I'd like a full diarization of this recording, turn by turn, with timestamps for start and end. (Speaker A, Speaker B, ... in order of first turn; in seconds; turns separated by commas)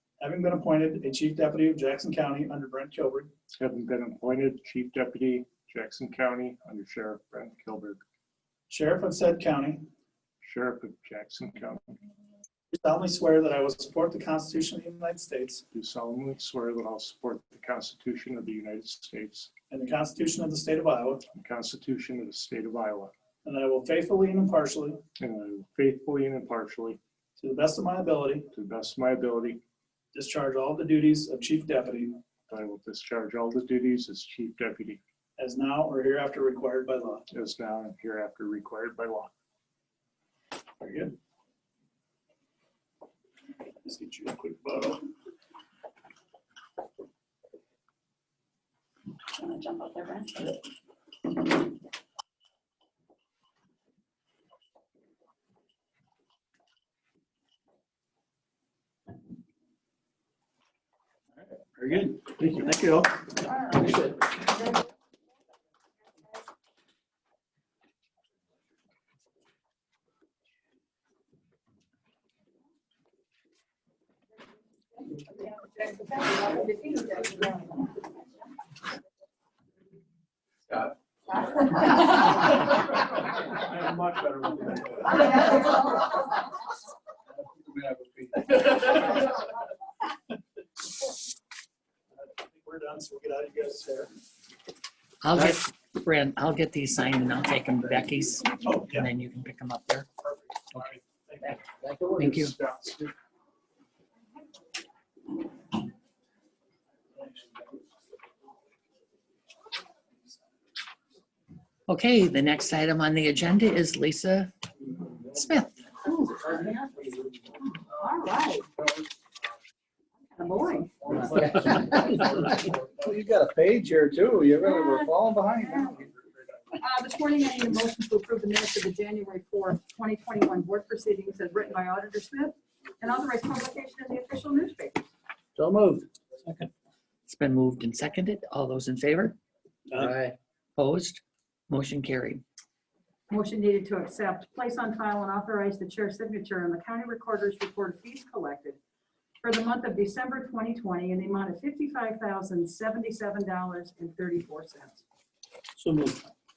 Speaker A: 0.2-3.3, Speaker B: 3.5-8.0, Speaker A: 8.7-9.9, Speaker B: 10.4-12.0, Speaker A: 12.7-15.6, Speaker B: 15.7-19.6, Speaker A: 19.7-21.3, Speaker B: 21.3-23.1, Speaker A: 23.4-25.0, Speaker B: 25.2-27.0, Speaker A: 27.4-28.5, Speaker B: 28.5-29.6, Speaker A: 30.1-32.2, Speaker B: 32.5-35.0, Speaker A: 35.4-37.3, Speaker B: 37.3-39.3, Speaker A: 40.8-41.1, Speaker A: 43.8-45.0, Speaker A: 61.5-64.2, Speaker C: 75.8-77.5, Speaker D: 83.8-84.8, Speaker D: 87.4-88.9, Speaker A: 92.1-94.1, Speaker E: 95.2-100.1, Speaker A: 98.6-99.1, Speaker A: 100.2-101.6, Speaker D: 101.5-103.1, Speaker E: 102.2-102.6, Speaker E: 111.9-114.5, Speaker E: 115.3-115.8, Speaker C: 116.0-116.7, Speaker C: 117.6-118.7, Speaker C: 120.3-121.0, Speaker D: 121.1-126.0, Speaker C: 124.6-126.1, Speaker C: 126.7-135.1, Speaker D: 135.5-136.1, Speaker A: 136.4-136.7, Speaker E: 137.3-139.4, Speaker D: 139.9-140.3, Speaker E: 140.8-142.4, Speaker C: 143.3-148.8, Speaker C: 149.4-155.0, Speaker A: 155.8-156.2